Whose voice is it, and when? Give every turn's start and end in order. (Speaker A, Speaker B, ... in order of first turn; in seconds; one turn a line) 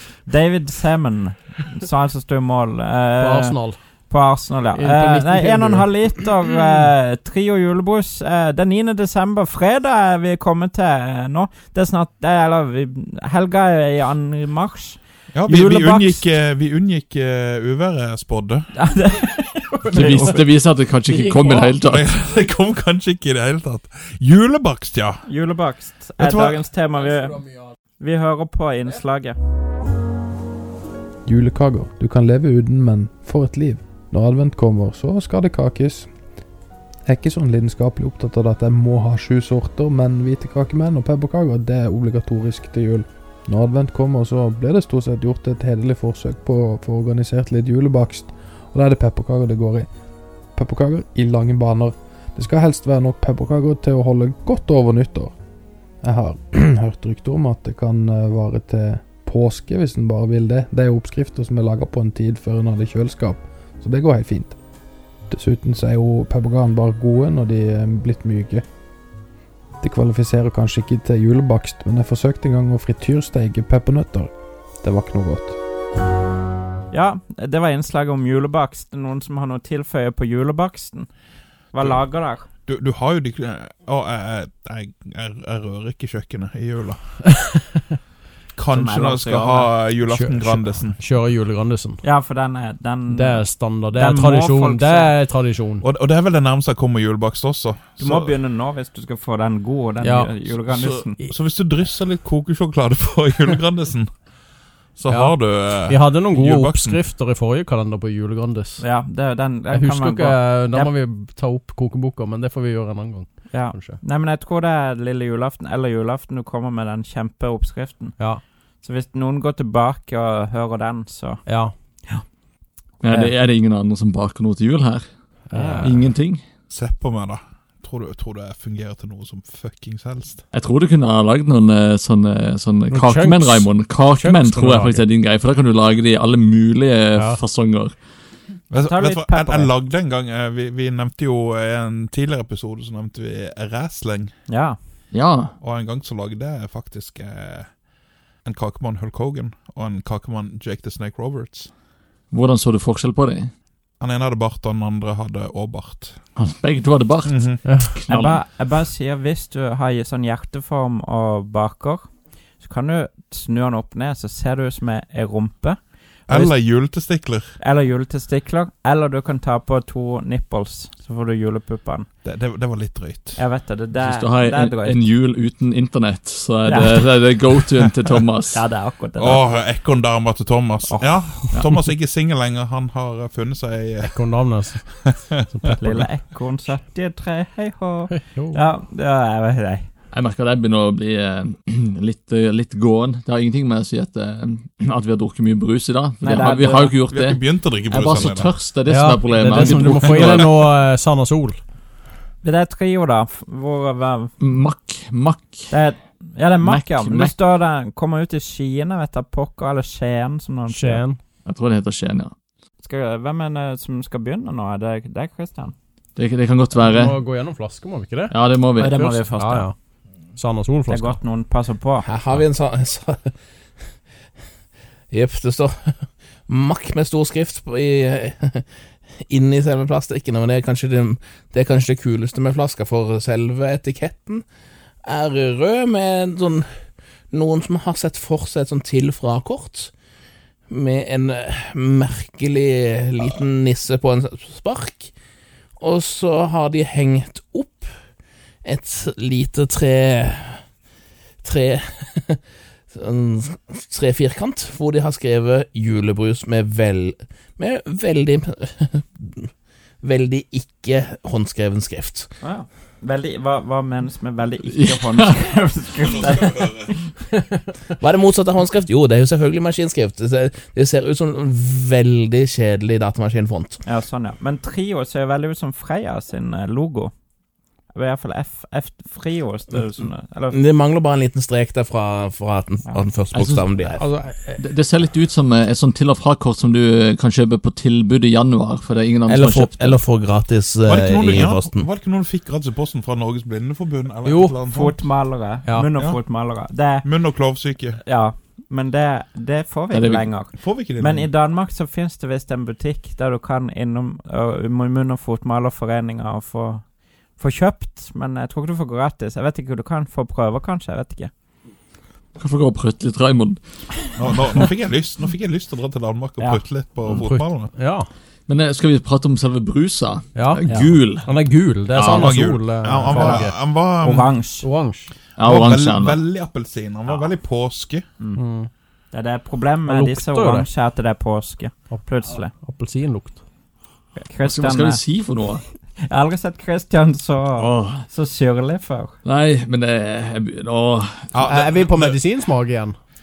Speaker A: 0.3-16.3
Speaker B: 3.2-3.8
Speaker B: 4.7-6.0
Speaker C: 15.3-18.7
Speaker A: 18.8-20.4
Speaker D: 19.9-22.2
Speaker B: 21.1-21.8
Speaker C: 21.9-25.2
Speaker A: 25.3-29.4
Speaker C: 26.2-26.6
Speaker E: 31.3-36.1
Speaker E: 37.1-49.9
Speaker E: 50.6-55.3
Speaker E: 56.0-64.5
Speaker E: 65.3-68.6
Speaker E: 69.8-74.3
Speaker E: 74.8-75.6
Speaker A: 76.9-81.1
Speaker A: 81.7-82.5
Speaker C: 82.7-87.0
Speaker B: 87.2-87.8
Speaker C: 88.5-91.0
Speaker A: 88.7-89.7
Speaker B: 90.1-92.0
Speaker A: 92.0-95.1
Speaker B: 93.1-95.8
Speaker C: 95.8-98.3
Speaker A: 98.0-101.2
Speaker B: 100.0-100.5
Speaker C: 100.6-104.1
Speaker C: 105.0-107.0
Speaker B: 105.1-108.8
Speaker A: 108.8-110.9
Speaker B: 109.7-114.0
Speaker A: 113.5-118.2
Speaker A: 118.8-121.4
Speaker B: 121.5-121.7
Speaker D: 123.0-125.1
Speaker B: 125.5-126.0
Speaker A: 125.5-125.9
Speaker D: 125.8-126.4
Speaker C: 126.7-130.4
Speaker D: 130.5-138.0
Speaker B: 132.9-135.1
Speaker B: 137.2-137.4
Speaker C: 138.7-144.3
Speaker A: 138.9-139.7
Speaker A: 144.5-144.8
Speaker D: 145.1-145.6
Speaker C: 145.6-147.7
Speaker C: 148.4-151.7
Speaker D: 152.3-153.5
Speaker C: 154.0-156.2
Speaker D: 156.4-158.4
Speaker C: 157.2-157.6
Speaker A: 158.1-162.1
Speaker A: 162.6-166.5
Speaker C: 166.3-167.6
Speaker A: 167.6-172.1
Speaker C: 172.2-173.4
Speaker A: 173.4-175.0
Speaker D: 174.0-178.6
Speaker A: 176.7-177.0
Speaker A: 178.5-179.4
Speaker C: 179.2-186.0
Speaker A: 180.9-181.2
Speaker B: 184.0-184.8
Speaker A: 185.6-189.9
Speaker B: 188.1-188.6
Speaker D: 190.1-200.5
Speaker A: 196.2-196.9
Speaker C: 197.1-198.5
Speaker B: 198.9-201.6
Speaker C: 200.0-200.6
Speaker A: 202.4-204.3
Speaker D: 204.4-205.7
Speaker A: 205.7-211.0
Speaker D: 206.6-207.4
Speaker B: 210.7-211.2
Speaker D: 211.4-212.3
Speaker A: 212.8-215.8
Speaker D: 216.2-217.2
Speaker B: 216.8-218.3
Speaker D: 218.3-219.1
Speaker A: 218.8-219.7
Speaker B: 219.0-219.7
Speaker B: 220.3-221.2
Speaker A: 220.9-222.1
Speaker F: 222.0-223.3
Speaker F: 225.1-228.7
Speaker F: 229.3-234.4
Speaker F: 235.0-236.7
Speaker F: 237.3-239.9
Speaker F: 240.7-245.1
Speaker F: 245.8-247.9
Speaker F: 248.6-250.6
Speaker F: 251.4-259.5
Speaker F: 260.0-262.3
Speaker A: 262.4-266.9
Speaker D: 264.7-265.4
Speaker C: 266.2-266.9
Speaker F: 268.0-273.8
Speaker A: 273.9-277.1
Speaker A: 277.9-280.6
Speaker F: 280.5-284.0
Speaker D: 283.3-283.7
Speaker B: 283.9-284.6
Speaker D: 284.6-290.0
Speaker F: 289.3-291.9
Speaker C: 290.9-295.0
Speaker B: 294.2-294.6
Speaker A: 294.7-297.1
Speaker B: 295.6-295.9
Speaker C: 295.9-296.2
Speaker C: 297.0-298.0
Speaker A: 298.0-311.3
Speaker D: 299.9-300.3
Speaker C: 300.6-301.3
Speaker D: 312.4-313.6
Speaker C: 314.2-317.7
Speaker B: 317.2-318.1
Speaker D: 318.5-321.3
Speaker B: 320.4-323.6
Speaker A: 320.7-320.9
Speaker C: 321.9-324.3
Speaker A: 323.1-323.4
Speaker A: 324.0-324.7
Speaker B: 324.5-325.1
Speaker D: 325.4-326.2
Speaker C: 325.4-328.0
Speaker B: 328.4-328.7
Speaker A: 329.1-332.5
Speaker B: 329.9-330.7
Speaker B: 331.9-333.4
Speaker A: 334.2-335.0
Speaker D: 334.4-335.6
Speaker A: 336.0-339.1
Speaker D: 337.6-338.1
Speaker D: 339.2-341.3
Speaker C: 341.3-342.2
Speaker B: 341.5-343.0